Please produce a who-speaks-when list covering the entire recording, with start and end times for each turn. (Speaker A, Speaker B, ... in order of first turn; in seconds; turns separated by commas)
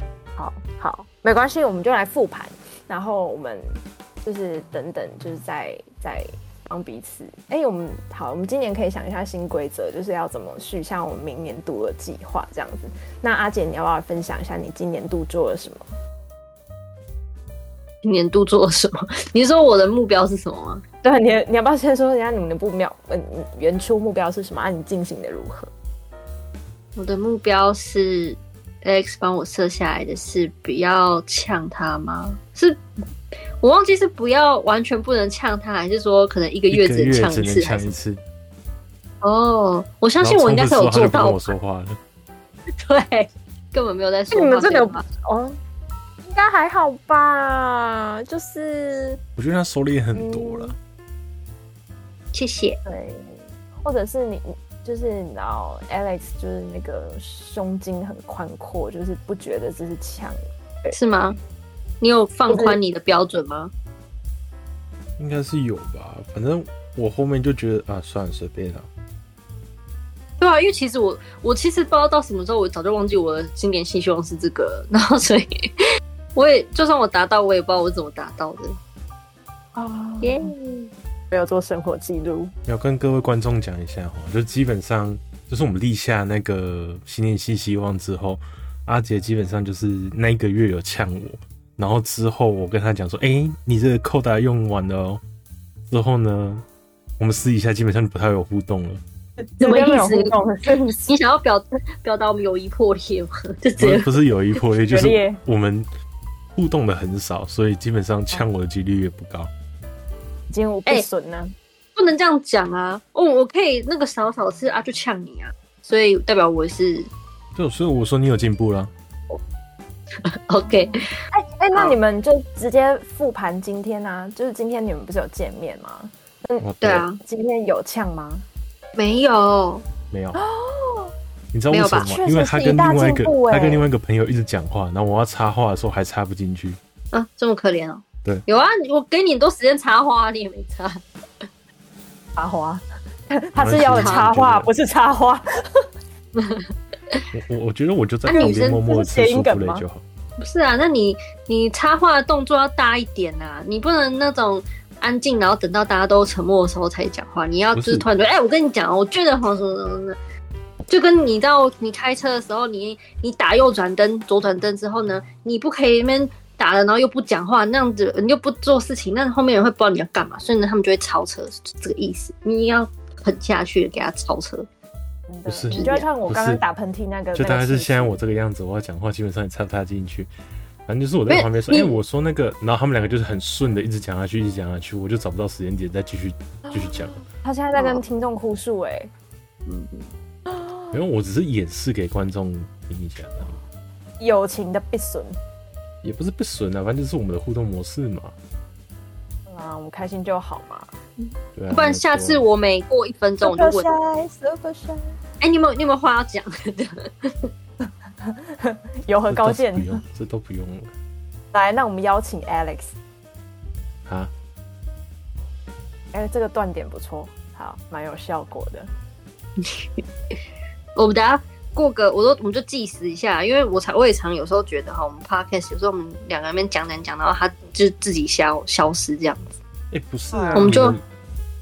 Speaker A: 0.3-15.9, Speaker B: 18.0-20.8, Speaker A: 21.0-25.7, Speaker B: 26.9-32.8, Speaker B: 33.6-37.9, Speaker C: 36.7-38.2, Speaker B: 39.2-41.5, Speaker C: 40.2-42.0, Speaker B: 42.7-45.0, Speaker A: 44.3-45.6, Speaker A: 46.2-49.2, Speaker C: 49.4-50.8, Speaker A: 50.1-50.7, Speaker B: 52.3-52.8, Speaker A: 52.9-60.9, Speaker B: 60.9-61.4, Speaker B: 62.0-63.7, Speaker A: 62.5-62.8, Speaker C: 65.2-68.9, Speaker B: 70.4-75.7, Speaker B: 76.3-78.8, Speaker A: 79.7-80.5, Speaker B: 80.2-80.9, Speaker A: 81.3-82.5, Speaker C: 82.7-95.2, Speaker C: 95.9-96.6, Speaker C: 97.2-99.0, Speaker A: 99.4-101.1, Speaker B: 99.6-100.3, Speaker B: 101.0-104.2, Speaker C: 103.8-105.9, Speaker A: 104.9-105.4, Speaker C: 106.5-109.5, Speaker A: 110.5-111.5, Speaker B: 112.0-117.1, Speaker C: 117.5-118.9, Speaker B: 120.2-121.2, Speaker A: 120.6-128.4, Speaker B: 121.7-122.0, Speaker C: 126.6-127.0, Speaker B: 126.8-127.2, Speaker B: 128.9-129.8, Speaker C: 130.1-130.4, Speaker A: 130.3-131.1, Speaker C: 131.5-136.8, Speaker B: 131.7-132.1, Speaker A: 132.1-133.9, Speaker B: 137.1-141.4, Speaker A: 142.3-145.8, Speaker C: 143.6-144.7, Speaker B: 144.0-144.2, Speaker B: 146.3-147.2, Speaker C: 147.3-150.0, Speaker B: 148.3-148.8, Speaker A: 148.3-149.8, Speaker B: 150.4-160.2, Speaker C: 157.7-158.1, Speaker B: 160.9-174.7, Speaker A: 175.3-178.2, Speaker C: 175.4-176.6, Speaker B: 175.7-176.1, Speaker C: 177.3-180.3, Speaker C: 180.8-187.2, Speaker B: 181.3-182.0, Speaker A: 187.2-189.1, Speaker B: 187.8-188.0, Speaker B: 189.7-190.1, Speaker A: 190.5-190.9, Speaker C: 190.9-193.6, Speaker A: 194.2-195.4, Speaker C: 196.0-198.3, Speaker A: 199.5-200.9, Speaker B: 201.2-203.9, Speaker C: 201.5-202.4, Speaker A: 203.4-205.1, Speaker B: 205.4-207.5, Speaker A: 208.2-209.9, Speaker C: 209.3-210.9, Speaker A: 211.5-212.9, Speaker C: 214.1-214.3, Speaker A: 216.1-218.9, Speaker B: 219.6-220.0, Speaker B: 220.9-229.5, Speaker C: 229.9-231.0, Speaker A: 230.3-230.9, Speaker B: 230.6-231.0